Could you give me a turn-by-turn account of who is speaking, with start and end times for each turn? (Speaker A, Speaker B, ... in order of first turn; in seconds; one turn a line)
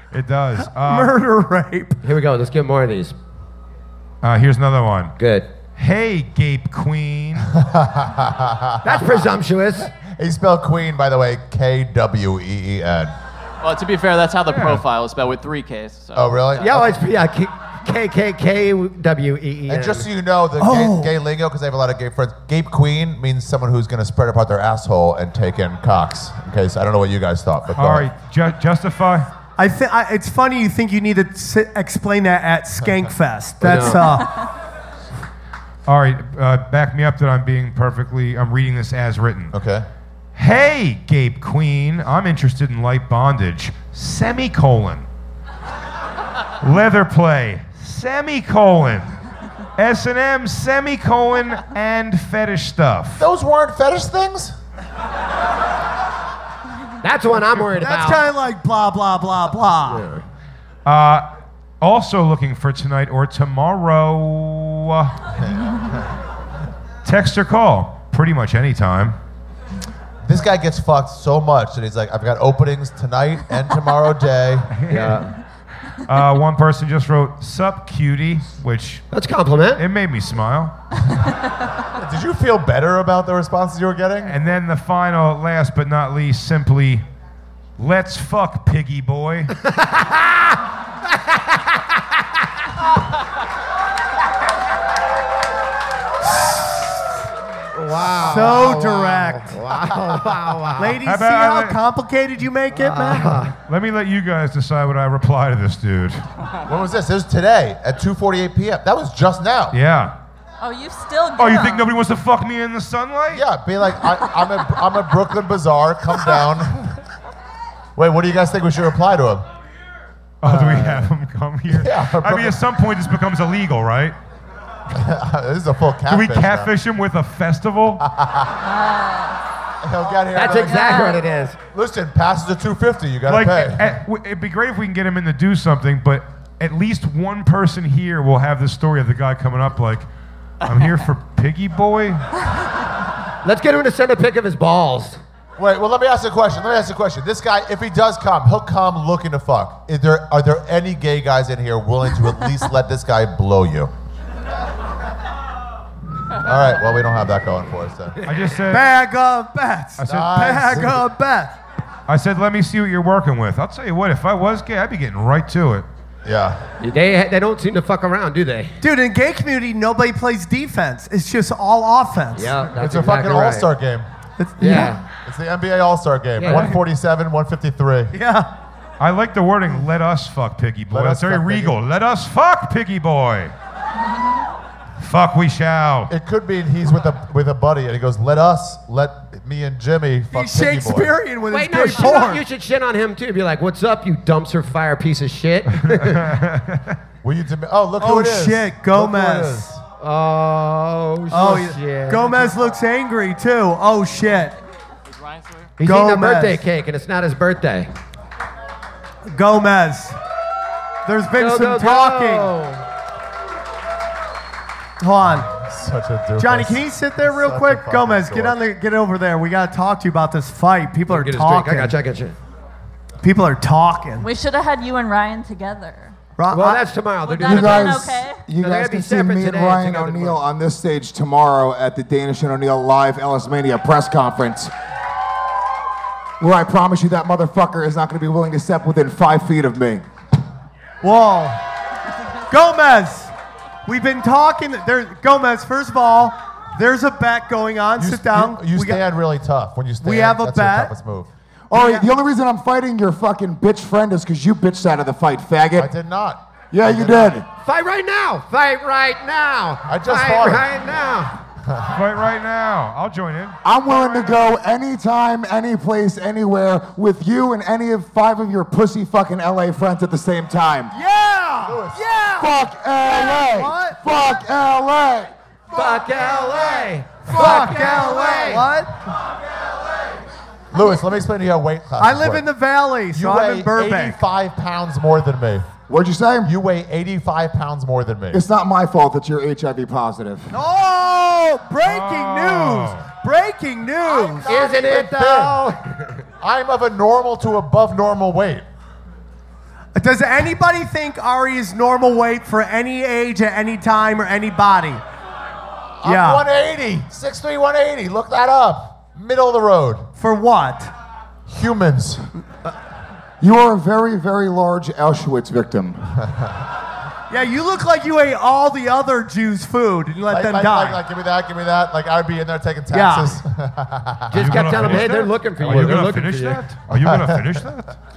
Speaker A: 0.1-1.1
Speaker B: 0.8-2.0
Speaker C: 2.0-3.1
Speaker A: 4.2-5.1
Speaker C: 5.2-5.5
Speaker A: 5.8-7.5
Speaker D: 7.5-9.3
Speaker C: 8.8-9.9
Speaker D: 9.9-13.1
Speaker E: 13.6-16.9
Speaker A: 14.5-14.8
Speaker D: 16.1-16.9
Speaker C: 16.6-20.1
Speaker D: 19.7-28.1
Speaker B: 20.6-21.1
Speaker A: 27.8-29.3
Speaker B: 29.6-34.4
Speaker C: 33.6-34.1
Speaker A: 35.9-39.5
Speaker D: 39.5-39.9
Speaker A: 40.3-45.0
Speaker A: 46.6-49.1
Speaker A: 49.8-53.2
Speaker D: 53.2-54.5
Speaker C: 57.0-58.3
Speaker B: 57.8-60.1
Speaker C: 59.9-60.2
Speaker A: 60.8-61.3
Speaker A: 61.8-65.2
Speaker D: 65.4-66.0
Speaker A: 67.0-69.2
Speaker D: 70.2-74.7
Speaker A: 74.7-75.3
Speaker C: 74.9-75.3
Speaker A: 76.0-79.0
Speaker C: 79.1-79.8
Speaker A: 79.8-80.7
Speaker D: 81.9-84.3
Speaker A: 84.2-87.0
Speaker A: 87.8-89.5
Speaker C: 89.6-90.6
Speaker C: 91.1-91.8
Speaker C: 97.7-101.0
Speaker B: 98.2-99.5
Speaker B: 100.8-103.4
Speaker A: 101.0-101.8
Speaker C: 102.7-103.5
Speaker A: 103.7-106.2
Speaker D: 106.7-109.7
Speaker A: 109.7-110.2
Speaker F: 110.6-111.9
Speaker A: 111.3-113.4
Speaker D: 113.3-116.9
Speaker D: 118.0-119.4
Speaker A: 120.4-124.2
Speaker D: 120.5-121.1
Speaker D: 121.7-122.6
Speaker D: 124.9-126.7
Speaker A: 126.1-128.0
Speaker D: 128.1-128.5
Speaker F: 128.6-129.4
Speaker D: 129.8-131.1
Speaker C: 130.3-131.6
Speaker F: 130.5-131.2
Speaker D: 131.7-133.8
Speaker A: 133.3-140.1
Speaker A: 140.6-142.2
Speaker C: 143.4-145.2
Speaker D: 145.6-153.9
Speaker D: 156.4-158.2
Speaker A: 158.2-158.9
Speaker B: 158.7-161.6
Speaker A: 160.0-160.3
Speaker D: 160.0-161.0
Speaker A: 162.1-165.8
Speaker D: 166.2-166.6
Speaker C: 166.8-168.8
Speaker B: 168.8-172.6
Speaker C: 172.3-173.7
Speaker D: 172.8-174.1
Speaker B: 174.4-174.9
Speaker C: 174.6-175.0
Speaker D: 174.6-178.1
Speaker C: 176.4-176.7
Speaker B: 178.1-178.5
Speaker A: 179.0-183.5
Speaker D: 180.9-181.7
Speaker A: 185.0-186.1
Speaker D: 186.1-191.1
Speaker B: 190.3-192.4
Speaker C: 191.5-196.3
Speaker A: 195.7-196.9
Speaker D: 197.2-199.8
Speaker B: 198.0-199.7
Speaker C: 200.0-202.7
Speaker B: 201.3-204.6
Speaker E: 205.1-205.7
Speaker C: 205.8-207.9
Speaker B: 205.8-206.6
Speaker B: 209.3-210.2
Speaker B: 211.1-212.5
Speaker C: 211.3-212.8
Speaker B: 215.0-215.5
Speaker D: 215.6-218.6
Speaker B: 216.4-221.9
Speaker C: 221.1-222.4
Speaker B: 223.2-224.3
Speaker F: 224.2-226.1
Speaker B: 226.4-226.8
Speaker C: 226.5-230.4
Speaker F: 227.2-228.5
Speaker G: 227.4-234.7
Speaker G: 236.4-240.0
Speaker B: 241.0-241.6
Speaker B: 242.5-243.3
Speaker B: 243.8-249.0
Speaker D: 248.0-251.3
Speaker B: 250.0-250.9
Speaker G: 251.7-255.9
Speaker B: 251.7-252.1
Speaker D: 255.8-257.4
Speaker G: 256.7-257.5
Speaker C: 257.6-261.3
Speaker D: 259.9-260.7
Speaker A: 261.9-264.3
Speaker G: 263.6-270.9
Speaker B: 270.9-274.0
Speaker D: 271.6-272.0
Speaker G: 272.4-275.3
Speaker C: 275.7-278.7
Speaker B: 277.2-278.9
Speaker D: 280.7-282.4
Speaker B: 282.0-284.2
Speaker D: 283.1-285.7
Speaker G: 285.9-286.5
Speaker D: 286.4-288.4
Speaker G: 288.3-290.5
Speaker B: 290.5-294.5
Speaker A: 291.8-293.1
Speaker D: 294.1-295.6
Speaker C: 294.4-296.2
Speaker D: 296.4-298.6
Speaker B: 299.9-305.0
Speaker D: 306.0-310.1
Speaker B: 306.0-306.4
Speaker B: 310.1-310.9
Speaker D: 311.5-312.2
Speaker G: 313.4-316.0
Speaker B: 317.3-321.0
Speaker D: 320.3-326.0
Speaker B: 322.9-323.4
Speaker C: 324.3-326.6
Speaker A: 324.3-327.9
Speaker D: 326.9-327.4